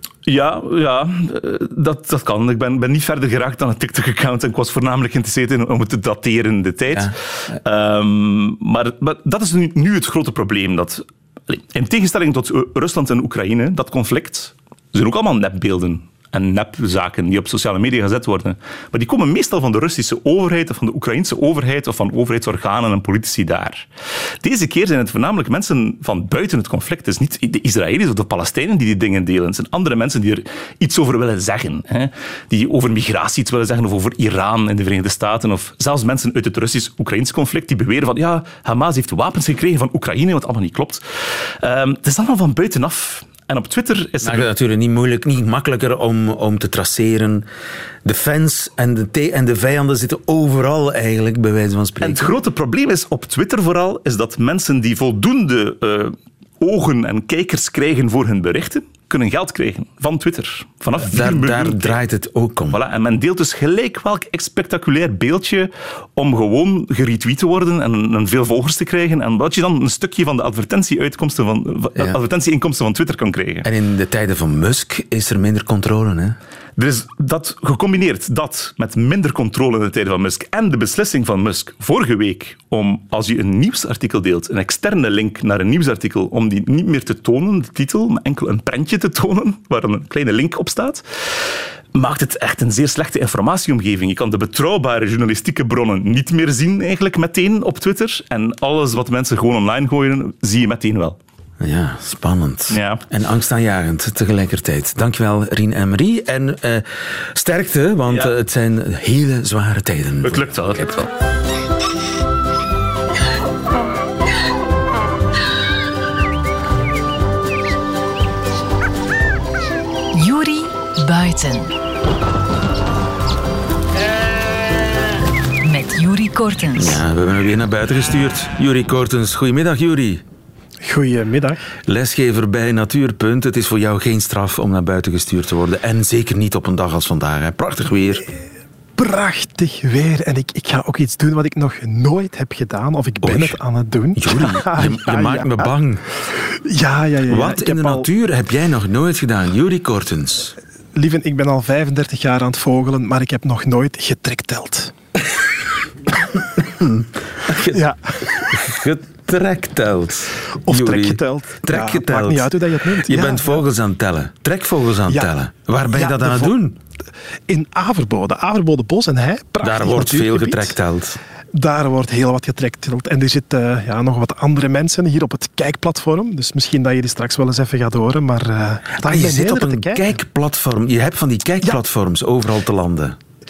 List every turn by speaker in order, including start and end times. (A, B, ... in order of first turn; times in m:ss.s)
0:00.3-0:23.9 A
0:06.9-0:07.5 B
0:24.4-0:44.5 A
0:44.2-0:47.4 B
0:48.0-0:52.4 B
0:52.0-1:02.0 A
1:01.0-1:02.8 B
1:02.7-1:13.7 A
1:13.6-1:16.4 B
1:16.8-1:41.2 A
1:41.6-1:50.9 B
1:42.7-1:43.0 A
1:50.2-1:51.1 A
2:00.1-2:01.7 C
2:05.6-2:07.0 C
2:06.8-2:10.2 B
2:10.8-2:11.6 D
2:11.9-2:18.3 B
2:19.0-2:25.7 D
2:23.2-2:23.6 B
2:24.2-2:26.0 B
2:26.6-2:28.1 D
2:27.3-2:30.6 B
2:31.0-2:34.9 D
2:36.6-2:46.8 B
2:37.7-2:38.0 D
2:40.7-2:43.6 D
2:45.9-2:46.5 D
2:47.5-2:50.8 D
2:49.6-2:51.2 B
2:51.5-3:00.0 D
2:59.0-3:03.2 B